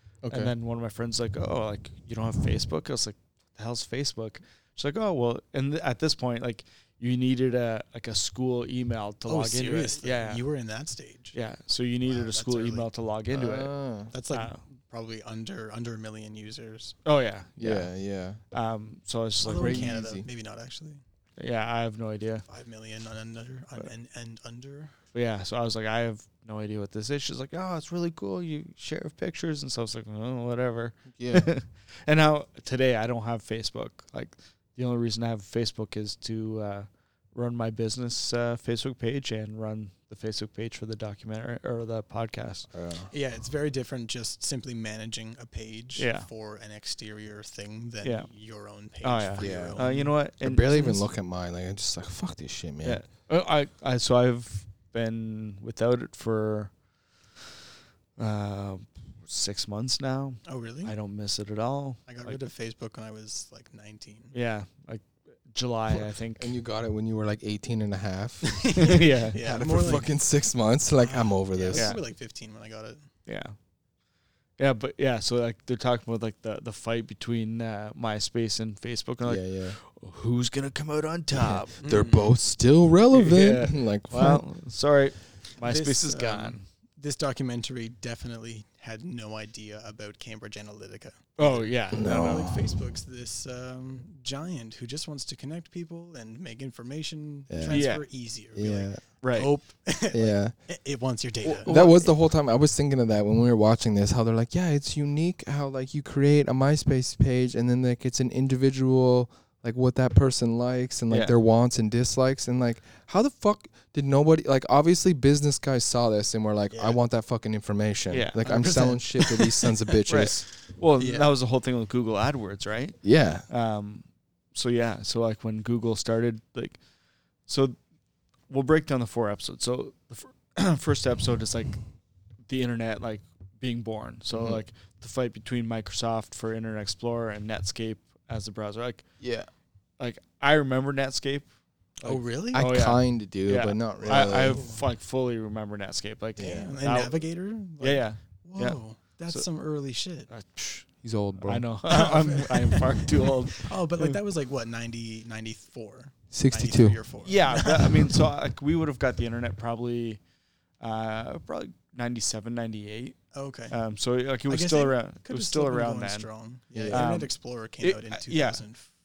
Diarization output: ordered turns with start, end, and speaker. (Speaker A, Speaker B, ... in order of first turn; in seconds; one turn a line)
Speaker A: 0.2-0.5
Speaker B: 0.3-10.4
Speaker C: 9.3-11.4
Speaker B: 11.3-13.7
Speaker C: 12.1-12.9
Speaker A: 13.3-14.1
Speaker C: 14.1-17.0
Speaker B: 14.3-14.6
Speaker B: 17.1-17.9
Speaker A: 17.6-18.4
Speaker B: 18.5-19.9
Speaker C: 19.4-21.0
Speaker A: 19.5-20.3
Speaker B: 21.4-22.4
Speaker C: 22.5-24.9
Speaker B: 25.1-42.7
Speaker A: 31.1-31.5
Speaker A: 42.7-43.1
Speaker C: 43.1-50.1
Speaker B: 46.0-46.3
Speaker B: 48.0-48.3
Speaker B: 49.0-51.0
Speaker A: 49.4-49.9
Speaker A: 50.4-53.0
Speaker B: 52.8-56.7
Speaker B: 58.2-62.4
Speaker C: 60.5-60.9
Speaker C: 62.1-64.3
Speaker B: 64.3-66.5
Speaker A: 66.4-68.8
Speaker C: 68.5-70.2
Speaker B: 68.7-69.4
Speaker A: 69.4-71.9
Speaker C: 71.0-73.1
Speaker B: 71.7-72.0
Speaker B: 73.3-73.6
Speaker B: 74.6-81.8
Speaker A: 79.2-79.8
Speaker A: 81.3-84.5
Speaker C: 81.8-82.4
Speaker B: 83.1-86.7
Speaker C: 85.6-101.8
Speaker B: 91.4-92.4
Speaker A: 91.9-92.6
Speaker A: 97.5-97.8
Speaker B: 97.7-98.0
Speaker A: 98.5-99.0
Speaker B: 99.2-99.5
Speaker A: 100.1-100.5
Speaker B: 101.5-102.1
Speaker A: 101.5-120.5
Speaker B: 111.1-111.4
Speaker C: 116.7-117.0
Speaker B: 118.1-118.7
Speaker C: 118.4-120.0
Speaker B: 120.1-126.8
Speaker C: 121.0-121.3
Speaker A: 123.0-123.5
Speaker B: 127.5-127.8
Speaker B: 128.5-131.8
Speaker B: 132.5-139.1
Speaker A: 134.3-134.6
Speaker A: 139.2-139.5
Speaker B: 140.0-141.5
Speaker B: 142.0-147.2
Speaker C: 142.0-142.6
Speaker A: 142.5-144.6
Speaker C: 143.9-144.8
Speaker A: 146.4-146.8
Speaker C: 146.4-150.3
Speaker B: 147.8-149.4
Speaker B: 150.3-150.9
Speaker A: 151.0-151.7
Speaker B: 151.4-154.2
Speaker C: 151.8-158.3
Speaker A: 156.3-157.0
Speaker B: 157.2-160.2
Speaker B: 160.8-163.2
Speaker C: 163.3-163.8
Speaker B: 163.7-166.3
Speaker C: 164.5-168.9
Speaker A: 166.7-167.1
Speaker B: 166.9-168.6